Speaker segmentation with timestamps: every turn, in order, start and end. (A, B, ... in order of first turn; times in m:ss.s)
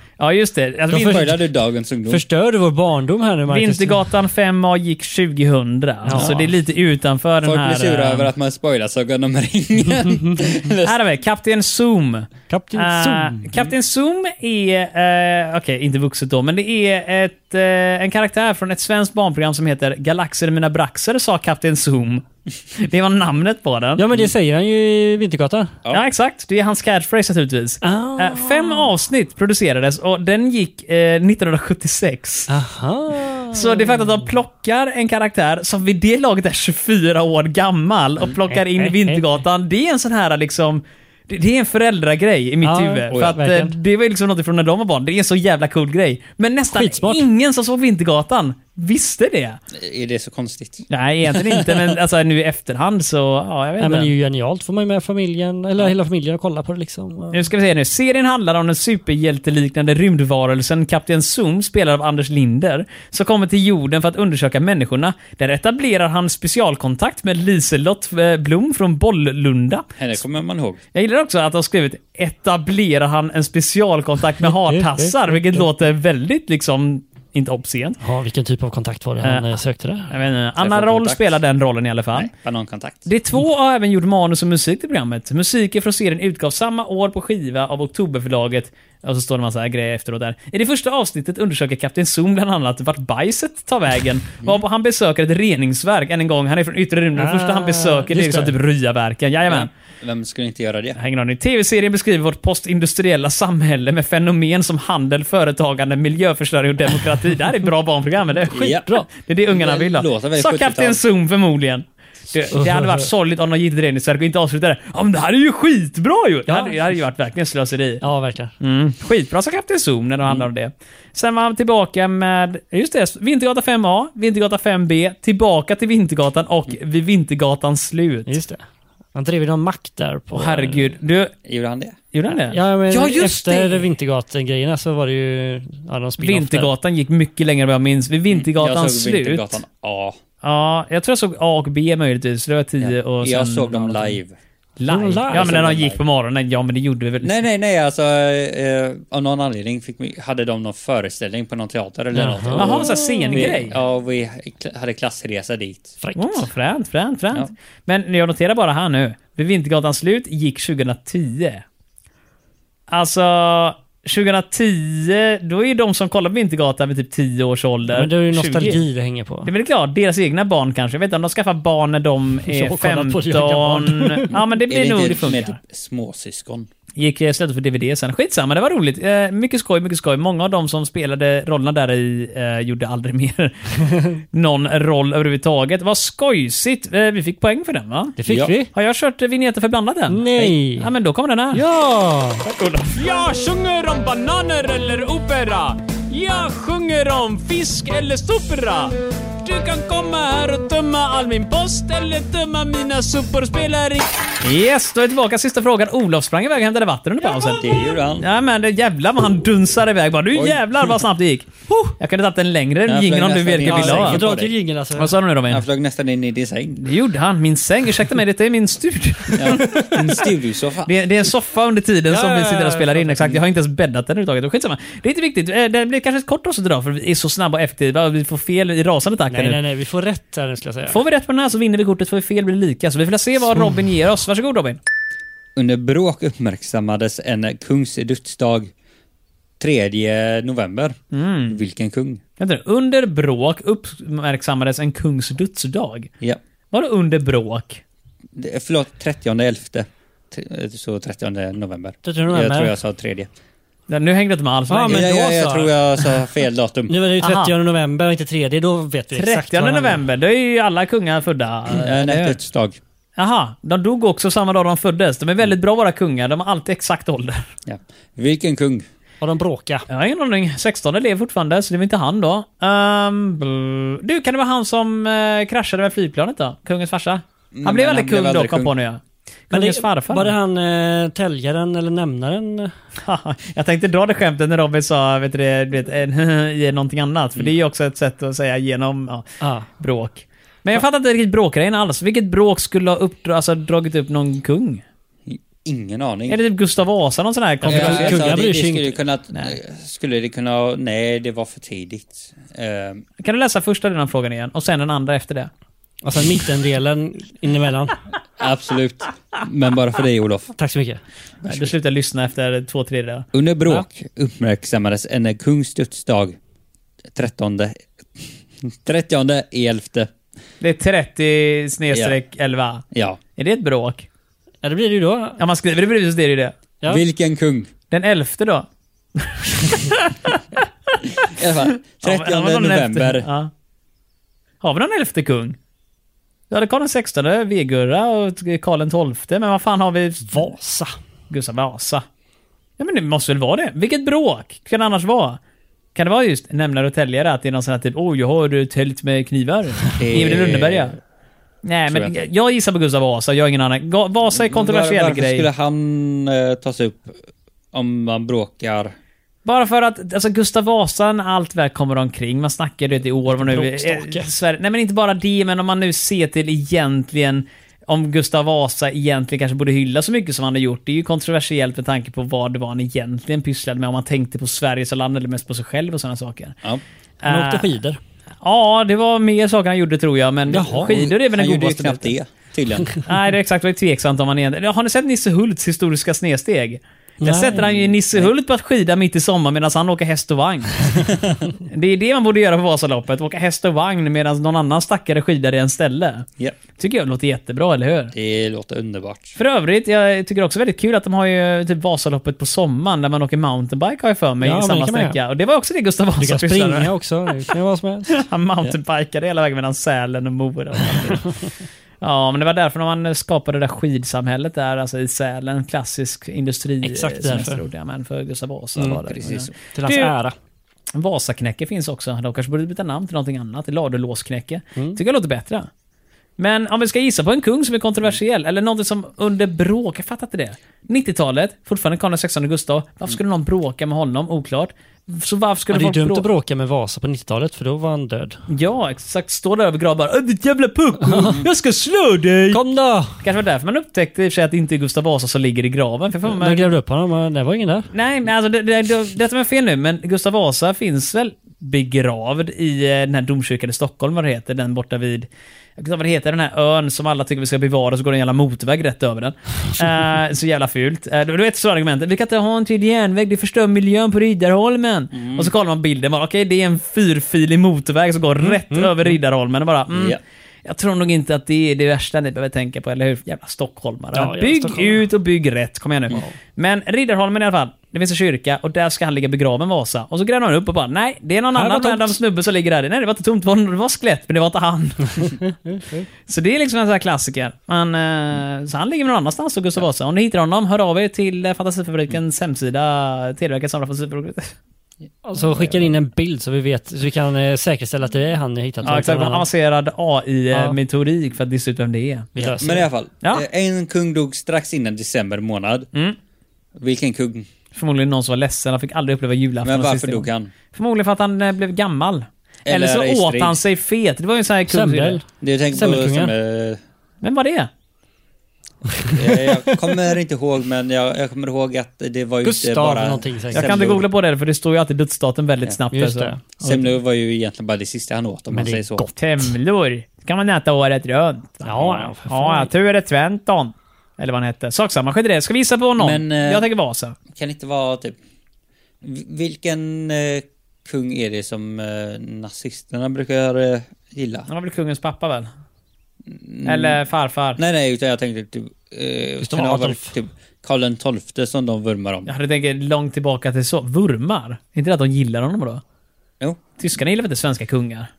0:00.2-0:01.4 A
0:00.9-0:01.3 B
0:00.9-0:02.2 C
0:02.1-0:04.0 B
0:03.5-0:08.3 A
0:06.0-0:06.4 B
0:06.1-0:06.5 C
0:07.4-0:11.0 C
0:10.8-0:24.0 A
0:12.5-0:13.5 B
0:24.0-0:25.8 B
0:25.9-0:32.5 A
0:27.8-0:28.9 B
0:32.5-0:34.2 B
0:33.5-0:49.6 A
0:38.5-0:39.2 B
0:42.6-0:43.8 B
0:46.7-0:47.3 B
0:49.7-0:51.8 C
0:50.9-0:54.1 A
0:53.8-0:57.5 B
0:57.3-1:09.9 A
1:10.0-1:10.8 C
1:10.9-1:18.0 A
1:14.4-1:15.7 B
1:18.0-1:20.2 B
1:20.1-1:22.3 A
1:20.6-1:21.3 C
1:22.1-1:23.1 C
1:23.0-1:39.7 A
1:37.2-1:38.5 B
1:39.5-1:41.0 C
1:41.0-1:58.0 A
1:48.5-1:49.1 B
1:48.5-1:48.9 C
1:49.5-1:51.0 C
1:52.5-1:53.1 B
1:56.5-1:57.0 B
1:58.0-1:58.5 B
1:58.6-2:08.3 A
2:08.3-2:08.6 B
2:09.1-2:10.9 B
2:10.3-2:11.3 A
2:11.4-2:12.0 C
2:12.1-2:13.8 A
2:12.5-2:16.7 B
2:16.2-2:19.6 A
2:18.3-2:20.2 C
2:20.4-2:24.2 A
2:22.8-2:24.4 C
2:24.8-2:27.4 A
2:24.9-2:25.6 B
2:25.3-2:26.0 C
2:27.2-2:36.0 C
2:32.1-2:33.5 B
2:32.6-2:33.7 A
2:36.0-2:36.5 B
2:36.2-2:41.6 A
2:42.9-2:48.8 A
2:47.9-2:49.5 B
2:49.4-2:55.6 A
2:52.4-2:54.3 B
2:54.3-2:56.7 C
2:57.0-3:08.2 A
3:08.2-3:08.7 B
3:08.3-3:08.5 C
3:08.7-3:11.6 A
3:10.1-3:10.9 B
3:11.5-3:12.5 B
3:12.4-3:34.2 A
3:27.5-3:28.2 C
3:30.3-3:30.6 C
3:32.9-3:34.5 C
3:33.6-3:35.1 B
3:35.0-3:35.6 A
3:35.5-3:36.8 C
3:36.8-3:40.2 A
3:39.4-3:40.9 C
3:40.8-3:49.6 A
3:42.1-3:43.4 B
3:49.3-3:51.0 B
3:50.9-3:54.8 A
3:55.6-3:58.7 C
3:59.6-4:01.0 C
4:01.1-4:01.6 A
4:01.5-4:02.2 C
4:02.4-4:06.1 A
4:06.7-4:07.8 A
4:08.3-4:13.3 C
4:12.0-4:12.7 B
4:13.9-4:15.2 A
4:14.7-4:15.7 B
4:14.9-4:16.9 C
4:16.9-4:20.0 B
4:17.2-4:17.5 A
4:19.1-4:22.4 A
4:21.7-4:22.8 C
4:23.2-4:27.5 A
4:27.6-4:28.8 C
4:29.2-4:29.9 B
4:29.9-4:40.3 A
4:37.5-4:38.7 C
4:39.5-4:42.7 B
4:43.0-4:49.2 A
4:49.4-4:49.7 B
4:49.8-4:54.8 A
4:55.3-4:56.4 C
4:56.3-4:58.3 A
4:57.6-4:58.9 B
4:57.7-5:03.0 C
5:03.2-5:05.5 A
5:06.0-5:08.0 B
5:08.4-5:10.5 C
5:10.6-5:11.0 B
5:11.4-5:11.7 C
5:11.5-5:13.3 A
5:13.3-5:16.4 C
5:17.1-5:20.1 C
5:20.6-5:24.0 A
5:22.9-5:23.2 C
5:24.6-5:25.4 B
5:25.4-5:26.5 A
5:26.9-5:27.7 C
5:27.9-5:33.5 A
5:31.3-5:33.3 C
5:34.6-5:35.6 A
5:36.5-5:40.5 A
5:40.3-5:40.9 B
5:41.3-5:42.0 A
5:42.8-5:45.4 A
5:45.9-5:50.9 A
5:50.0-5:51.0 C
5:51.6-5:55.4 A
5:51.9-5:52.2 C
5:54.3-5:58.9 C
5:59.4-6:16.6 A
6:03.2-6:04.3 B
6:17.2-6:17.7 A
6:17.2-6:18.0 B
6:18.4-6:22.1 A
6:20.5-6:21.0 B
6:20.9-6:23.0 C
6:23.0-6:31.1 A
6:27.2-6:27.7 B
6:27.6-6:28.3 C
6:31.7-6:38.1 A
6:38.1-6:39.4 C
6:39.4-6:46.9 A
6:44.4-6:45.2 B
6:46.2-6:48.2 B
6:48.1-6:51.4 A
6:52.0-7:00.1 A
6:56.8-6:57.6 B
6:58.8-6:59.5 C
6:59.7-7:00.3 B
7:00.9-7:05.7 A
7:06.4-7:16.2 A
7:15.7-7:18.4 B
7:18.5-7:22.6 A
7:21.0-7:21.4 B
7:22.5-7:23.2 B
7:23.2-7:26.6 A
7:26.2-7:27.9 B
7:27.9-8:05.4 A
7:45.1-7:45.5 C
7:48.4-7:49.2 B
7:49.9-7:50.2 C
7:54.1-7:55.0 B
8:01.5-8:02.2 B
8:05.6-8:06.1 B
8:06.3-8:14.5 A
8:15.2-8:19.5 B
8:15.4-8:15.9 C
8:18.8-8:22.3 A
8:22.4-8:22.9 B
8:22.6-8:25.9 C
8:26.8-8:27.5 C
8:27.7-8:35.2 A
8:29.6-8:30.5 C
8:32.6-8:33.6 C
8:34.7-8:36.3 B
8:35.4-8:36.8 C
8:37.2-8:37.7 A
8:38.9-8:39.8 B
8:39.1-8:44.0 C
8:42.4-8:44.0 B
8:43.5-8:46.9 A
8:45.9-8:46.4 B
8:46.6-8:49.0 C
8:48.5-8:49.5 B
8:49.2-8:57.2 A
8:51.6-8:52.7 B
8:56.0-8:56.6 C
8:57.3-8:58.2 C
8:59.0-9:04.5 C
9:04.5-9:05.5 A
9:06.3-9:07.0 C
9:06.6-9:07.6 A
9:07.6-9:12.3 C
9:09.4-9:10.1 B
9:12.3-9:15.8 A
9:16.8-9:18.1 A